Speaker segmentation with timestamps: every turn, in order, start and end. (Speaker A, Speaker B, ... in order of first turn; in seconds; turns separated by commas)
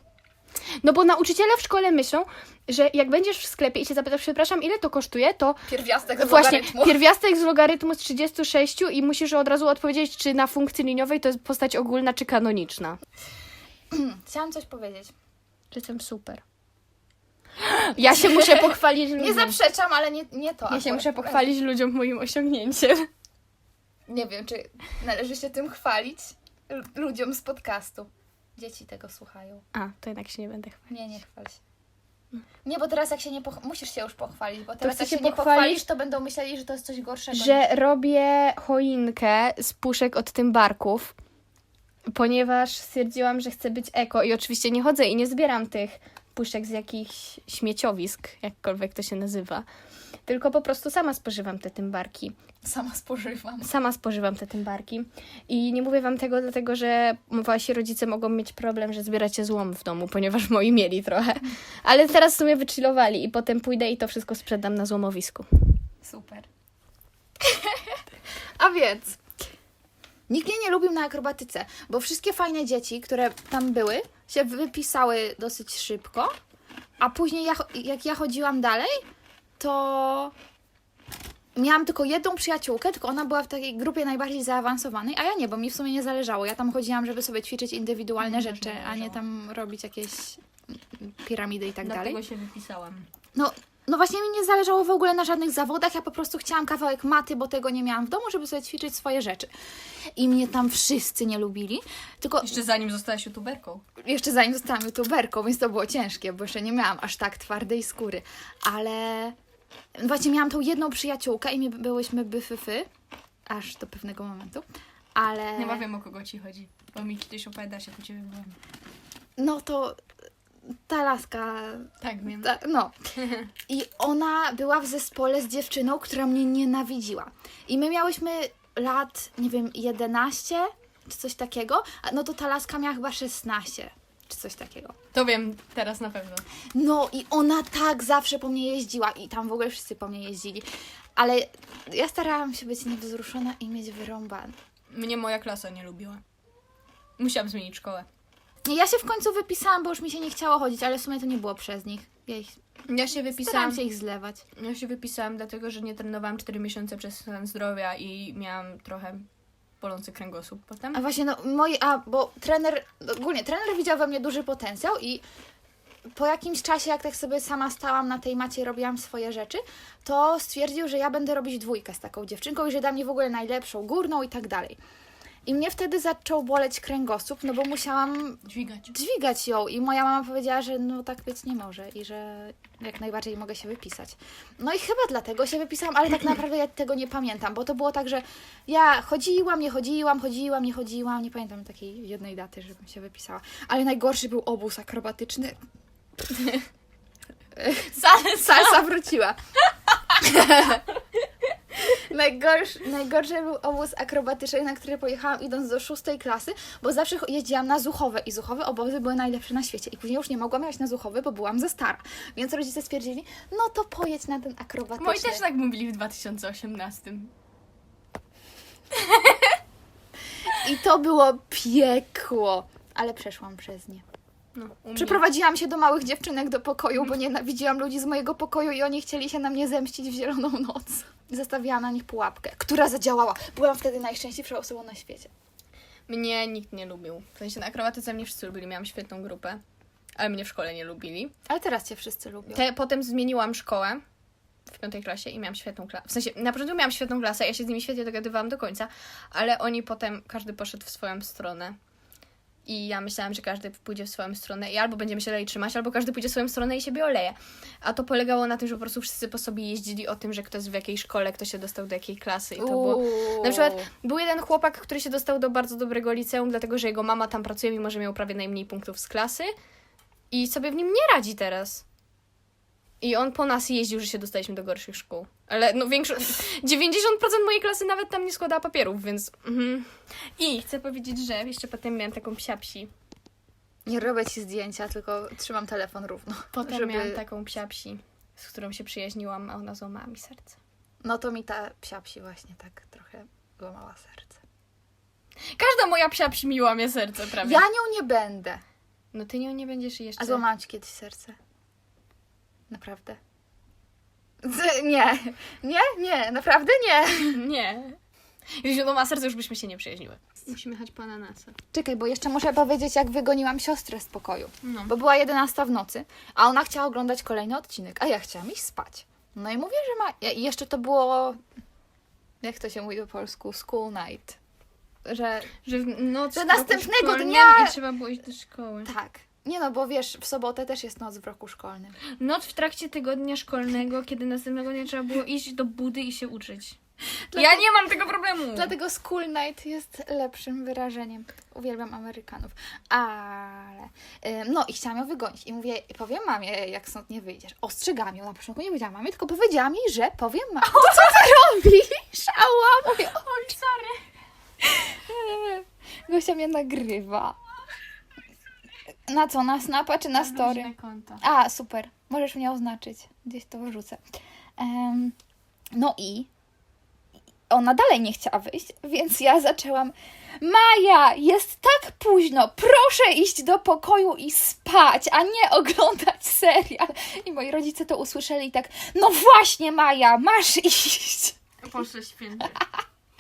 Speaker A: 0.8-5.6, Speaker B: 5.7-7.0, Speaker A: 6.2-13.0, Speaker B: 13.9-15.1, Speaker A: 15.7-16.4, Speaker A: 17.6-19.6, Speaker B: 18.0-21.5, Speaker A: 20.7-23.1, Speaker B: 24.1-29.6, Speaker A: 29.7-30.8, Speaker B: 30.9-31.6, Speaker B: 32.6-37.6, Speaker A: 34.8-35.8, Speaker A: 37.3-41.1, Speaker A: 42.1-49.7, Speaker A: 50.3-52.4, Speaker B: 52.6-53.7, Speaker A: 53.6-65.5, Speaker B: 66.0-66.5, Speaker B: 67.5-68.0, Speaker B: 68.6-69.2, Speaker B: 70.3-76.3, Speaker B: 77.0-79.0, Speaker B: 79.6-80.3, Speaker B: 81.6-92.2, Speaker A: 88.2-89.2, Speaker A: 91.8-93.1, Speaker B: 93.3-99.5, Speaker B: 100.2-102.6, Speaker A: 102.4-103.8, Speaker B: 104.0-109.4, Speaker B: 110.0-112.9, Speaker B: 113.5-115.8, Speaker A: 115.6-118.6, Speaker B: 119.4-120.0, Speaker B: 120.9-122.9, Speaker A: 122.0-122.5, Speaker A: 123.2-123.4, Speaker B: 123.7-134.9, Speaker A: 135.1-136.4, Speaker B: 136.7-144.6, Speaker A: 144.9-146.2, Speaker A: 147.2-148.1, Speaker B: 148.7-152.6, Speaker A: 152.9-153.8, Speaker B: 153.3-154.4, Speaker A: 154.6-159.3, Speaker A: 159.8-161.0, Speaker B: 160.9-165.2, Speaker B: 166.1-174.8, Speaker B: 175.5-195.6, Speaker A: 178.4-178.9, Speaker A: 196.3-196.6, Speaker B: 197.6-199.4, Speaker A: 197.9-198.9, Speaker B: 200.1-200.8, Speaker B: 201.8-215.4, Speaker A: 215.0-217.3, Speaker A: 218.9-219.6, Speaker B: 220.5-224.1, Speaker A: 224.6-225.2, Speaker B: 225.0-235.3, Speaker A: 236.1-239.6, Speaker A: 240.2-241.3, Speaker B: 241.5-242.6, Speaker A: 242.5-244.0, Speaker A: 244.7-251.8, Speaker A: 252.7-269.5, Speaker B: 262.6-263.9, Speaker A: 270.3-271.9, Speaker A: 273.0-282.9, Speaker B: 283.9-287.2, Speaker A: 286.5-290.6, Speaker B: 291.0-294.4, Speaker A: 295.6-297.6, Speaker B: 297.4-298.6, Speaker A: 299.1-300.4, Speaker B: 300.2-301.4, Speaker B: 302.7-303.2, Speaker B: 304.4-307.4, Speaker A: 307.3-308.0, Speaker A: 308.6-311.6, Speaker B: 311.7-321.4, Speaker A: 314.6-314.9, Speaker B: 322.4-324.4, Speaker B: 325.1-325.5, Speaker A: 325.6-328.9, Speaker B: 326.3-327.8, Speaker B: 328.9-332.0, Speaker A: 332.2-336.8, Speaker B: 337.3-337.6, Speaker A: 337.3-338.7, Speaker B: 338.5-353.3, Speaker A: 350.6-351.3, Speaker A: 353.0-354.0, Speaker B: 354.6-357.4, Speaker B: 359.1-364.0, Speaker A: 360.2-361.2, Speaker B: 364.6-365.1, Speaker B: 365.7-366.3, Speaker B: 367.5-381.4, Speaker A: 381.6-382.6, Speaker B: 382.5-382.8